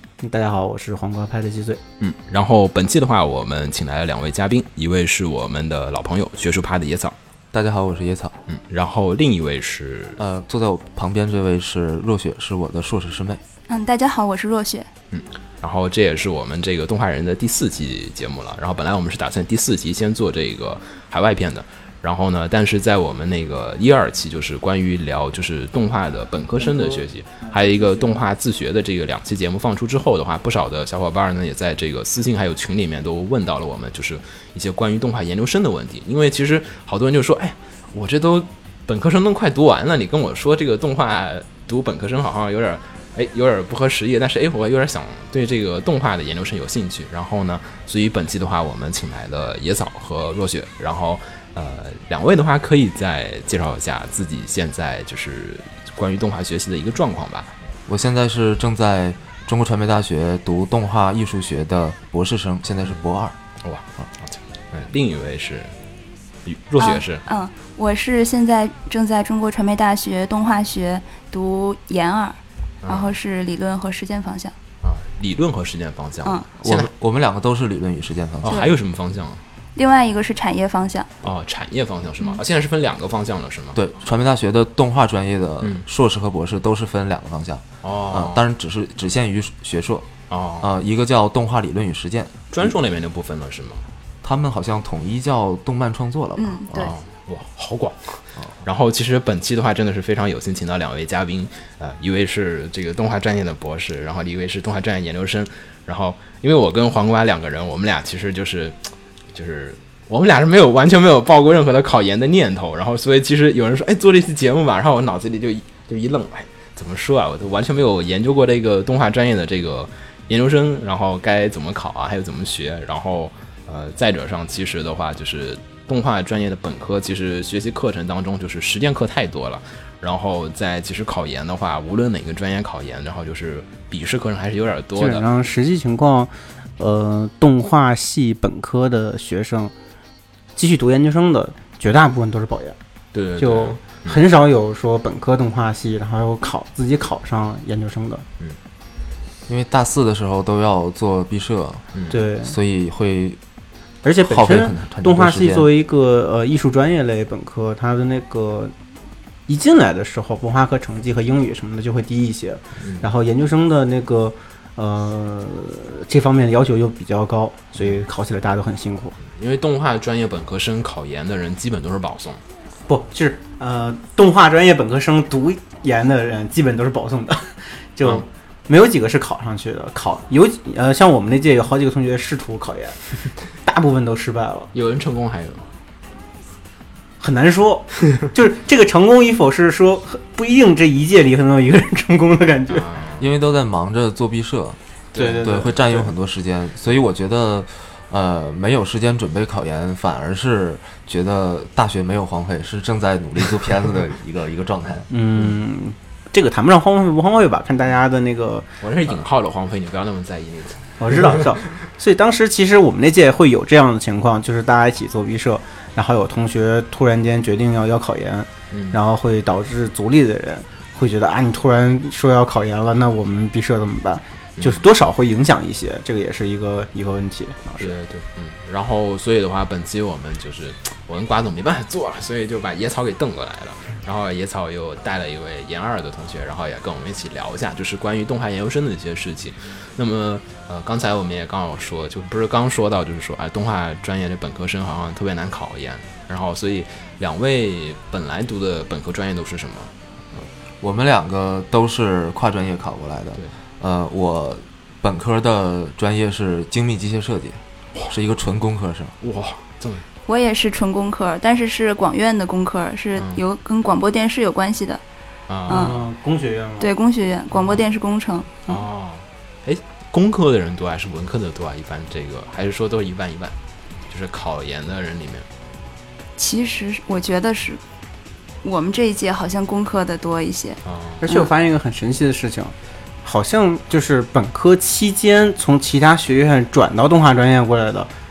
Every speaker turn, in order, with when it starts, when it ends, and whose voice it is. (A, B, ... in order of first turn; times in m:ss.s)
0:00.2-0:01.8 A
0:02.0-0:07.2 B
0:07.5-0:08.3 C
0:08.5-0:10.2 B
0:10.2-0:13.4 C
0:13.7-0:14.9 D
0:15.1-0:57.5 B
0:57.9-1:03.4 C
1:03.6-1:05.7 B
1:06.4-1:07.2 B
1:06.8-1:14.5 D
1:12.8-1:13.1 B
1:14.8-1:16.9 B
1:16.6-1:18.6 C
1:18.4-1:19.4 B
1:19.7-1:21.1 D
1:21.2-1:23.8 B
1:23.7-1:30.1 C
1:27.8-1:28.4 B
1:30.3-1:30.7 B
1:30.6-1:32.7 C
1:32.5-1:33.8 B
1:34.2-1:36.9 C
1:36.4-1:36.9 D
1:36.7-2:15.2 B
2:15.0-2:19.7 A
2:20.6-2:22.8 A
2:23.1-2:24.2 B
2:23.4-2:28.2 A
2:29.5-2:31.8 C
2:31.9-2:32.2 B
2:32.1-2:32.6 A
2:32.4-2:33.4 C
2:34.0-2:38.7 A
2:34.2-2:35.7 C
2:39.5-2:49.2 A
2:42.8-2:43.1 B
2:49.2-2:52.4 B
2:52.9-3:04.7 A
3:04.7-3:05.7 B
3:07.2-3:12.9 A
3:12.7-3:13.2 B
3:13.2-3:14.8 C
3:15.1-3:15.5 B
3:15.2-3:16.1 A
3:15.4-3:25.1 C
3:25.1-3:29.1 A
3:28.8-3:31.5 B
3:31.0-3:48.0 A
3:38.7-3:39.0 B
3:47.8-4:10.5 B
4:10.8-4:19.1 C
4:19.2-4:20.0 B
4:20.3-4:25.0 D
4:25.5-4:26.0 B
4:25.7-4:26.0 D
4:25.7-4:26.9 A
4:26.8-4:28.8 D
4:28.7-4:33.5 B
4:34.1-4:35.4 B
4:36.4-4:37.8 D
4:38.6-4:41.5 D
4:40.8-4:41.2 B
4:41.2-4:48.1 A